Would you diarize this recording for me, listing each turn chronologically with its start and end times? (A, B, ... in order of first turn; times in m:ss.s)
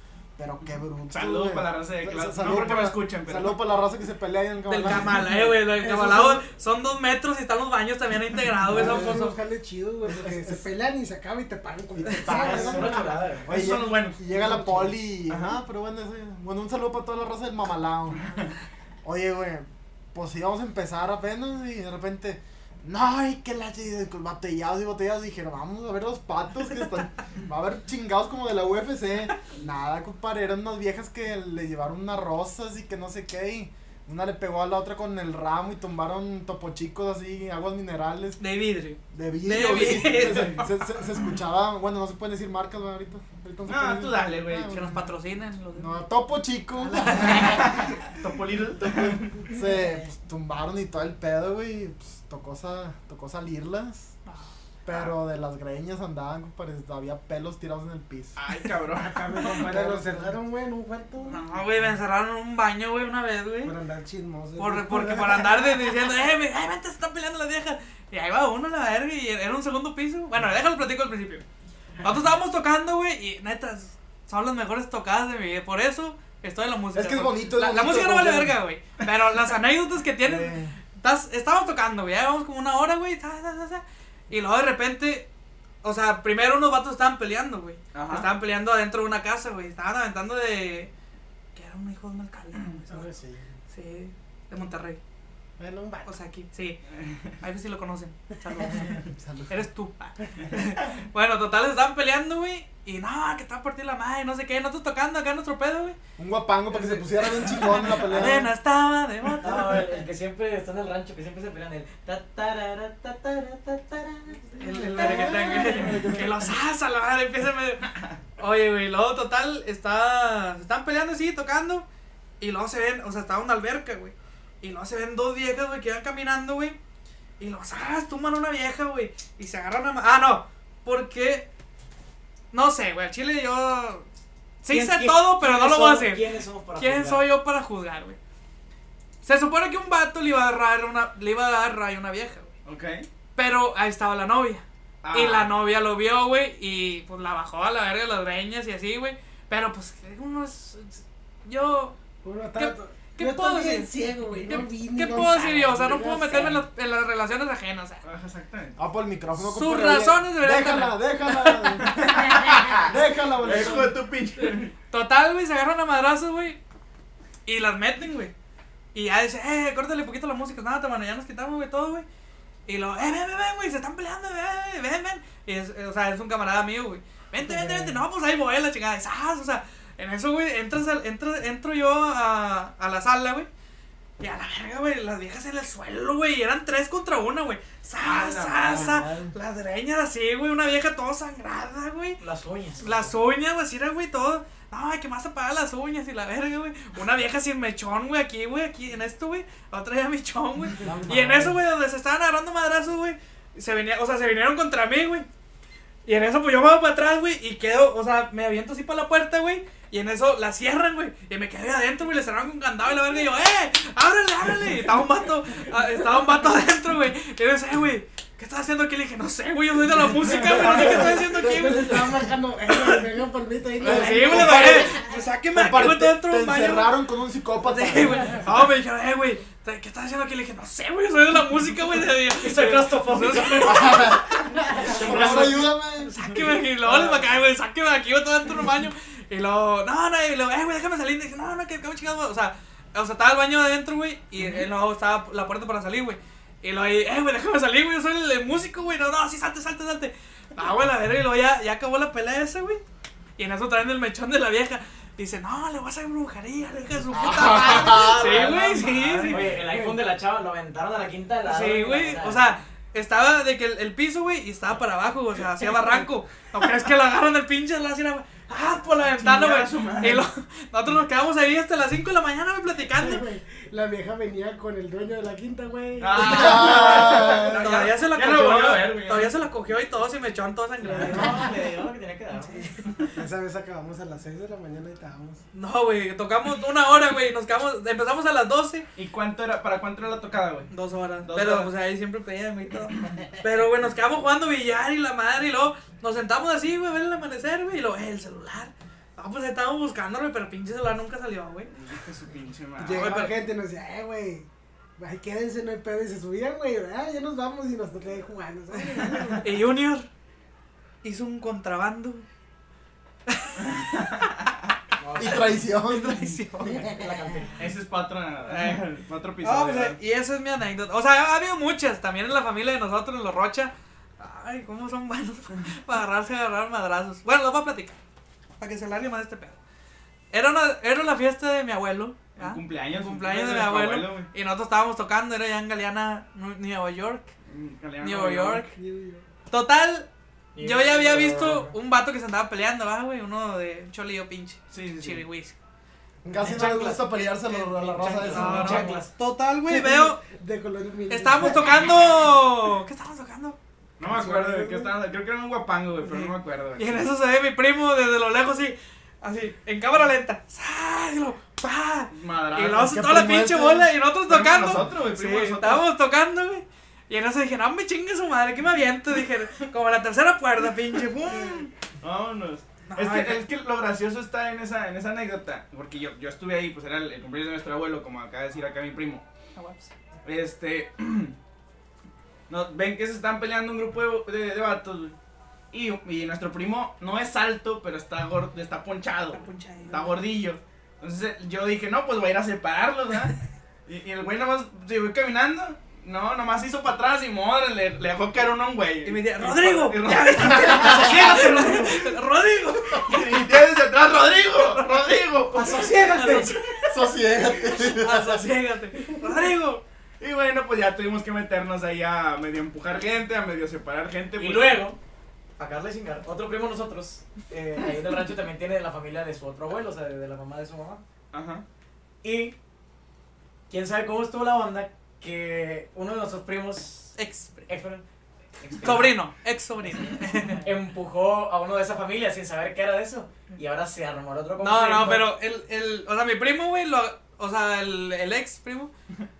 0:00.4-0:05.2 A
0:01.1-0:03.6 B
0:04.7-0:09.3 C
0:05.8-0:06.4 A
0:05.8-0:06.2 D
0:08.7-0:13.1 D
0:08.7-0:09.2 A
0:10.0-0:10.6 A
0:12.1-0:18.2 A
0:12.2-0:13.5 E
0:13.5-0:14.2 B
0:14.3-0:14.9 D
0:15.3-0:15.6 B
0:18.2-0:18.5 B
0:19.0-0:38.4 A
0:38.4-0:40.9 C
0:39.1-0:45.1 A
0:43.7-0:44.8 B
0:44.7-0:46.0 C
0:45.7-0:47.9 A
0:47.1-0:49.4 B
0:47.2-0:47.5 C
0:48.8-0:54.1 A
0:54.8-0:58.4 A
0:54.9-0:55.2 B
0:58.4-1:00.0 B
0:59.0-1:01.4 D
0:59.4-1:00.4 A
1:01.3-1:03.7 C
1:03.6-1:05.7 D
1:04.6-1:11.4 C
1:12.0-1:25.3 C
1:16.9-1:18.6 A
1:20.2-1:20.8 A
1:25.8-1:30.9 C
1:27.9-1:28.3 B
1:31.5-1:33.1 C
1:32.9-1:33.4 A
1:33.7-1:35.0 C
1:35.6-1:36.1 A
1:36.0-1:36.8 C
1:36.9-1:37.3 B
1:37.4-1:46.0 C
1:38.7-1:39.6 A
1:46.2-1:48.5 A
1:47.2-1:49.9 C
1:49.4-1:56.1 E
1:54.6-2:01.8 C
1:54.8-1:56.5 A
2:02.4-2:06.8 C
2:07.4-2:11.5 C
2:12.5-2:14.1 C
2:14.6-2:18.2 C
2:14.7-2:17.3 E
2:19.2-2:22.5 C
2:22.6-2:23.1 B
2:23.4-2:32.0 C
2:25.0-2:25.5 B
2:32.2-2:36.6 D
2:32.6-2:38.0 C
2:38.0-2:38.8 B
2:38.8-2:43.9 A
2:39.4-2:41.4 C
2:41.8-2:44.7 B
2:44.4-2:46.6 C
2:47.4-2:48.3 C
2:48.9-2:52.0 C
2:52.7-3:03.5 C
2:57.4-2:58.0 D
3:04.2-3:12.2 C
3:08.0-3:09.0 B
3:08.6-3:09.3 A
3:12.2-3:13.1 E
3:12.8-3:25.3 C
3:20.8-3:21.1 D
3:20.8-3:21.6 A
3:26.0-3:42.0 C
3:40.3-3:42.3 A
3:40.4-3:44.9 D
3:42.7-3:43.0 C
3:43.8-3:46.9 C
3:43.9-3:45.0 A
3:45.5-3:48.4 A
3:47.6-4:12.8 C
3:52.3-3:54.2 E
3:53.6-3:56.1 A
3:54.8-3:55.7 E
3:55.1-3:55.4 B
3:56.9-3:57.2 E
4:13.4-4:19.4 C
4:17.2-4:18.4 A
4:17.5-4:18.8 E
4:17.9-4:19.7 B
4:19.3-4:22.6 E
4:21.4-4:33.2 C
4:29.0-4:30.2 B
4:32.9-4:37.2 D
4:36.0-4:39.4 B
4:36.1-4:41.4 C
4:36.2-4:37.6 A
4:40.8-4:41.4 D
4:40.9-4:42.7 E
4:42.5-4:45.4 D
4:45.5-4:48.8 C
4:49.0-4:50.7 B
4:50.7-5:01.7 C
4:51.2-4:51.7 B
5:01.7-5:03.3 B
5:02.8-5:09.5 D
5:02.8-5:03.3 C
5:09.4-5:10.1 C
5:11.0-5:12.2 C
5:13.3-5:13.6 C
5:13.6-5:14.3 B
5:15.0-5:15.7 E
5:15.2-5:16.4 A
5:15.3-5:16.9 C
5:16.7-5:17.6 E
5:17.6-5:20.0 B
5:18.5-5:18.8 C
5:19.4-5:28.0 C
5:28.6-5:29.6 C
5:30.3-5:37.3 C
5:32.4-5:34.3 B
5:37.4-5:38.6 B
5:38.0-5:38.8 C
5:38.7-5:39.3 D
5:39.5-5:40.1 C
5:40.5-5:41.7 E
5:40.6-5:45.6 C
5:44.7-5:45.2 B
5:46.2-5:46.6 D
5:46.2-5:48.9 A
5:46.4-5:49.1 E
5:48.2-5:50.2 C
5:49.6-5:51.8 D
5:51.1-5:53.6 C
5:54.0-5:57.1 B
5:54.0-5:54.9 D
5:56.0-6:11.7 C
6:02.1-6:02.9 B
6:02.7-6:03.9 A
6:04.3-6:05.8 B
6:11.3-6:19.2 B
6:12.9-6:13.4 C
6:19.6-6:19.9 C
6:20.2-6:21.3 B
6:22.5-6:25.2 B
6:25.7-6:41.9 B
6:29.3-6:30.2 C
6:39.0-6:43.4 C
6:42.9-6:45.8 B
6:44.5-6:45.1 C
6:45.5-6:46.6 E
6:45.8-6:46.9 C
6:46.9-6:48.5 A
6:47.6-6:49.8 C
6:50.2-6:54.8 B
6:54.3-6:55.0 E
6:55.6-7:01.0 E
7:01.3-7:01.6 B
7:02.2-7:02.6 E
7:03.7-7:07.1 E
7:07.1-7:07.7 C
7:07.7-7:08.0 E
7:08.6-7:09.2 E
7:08.8-7:10.6 C
7:10.6-7:15.3 E
7:14.6-7:18.9 C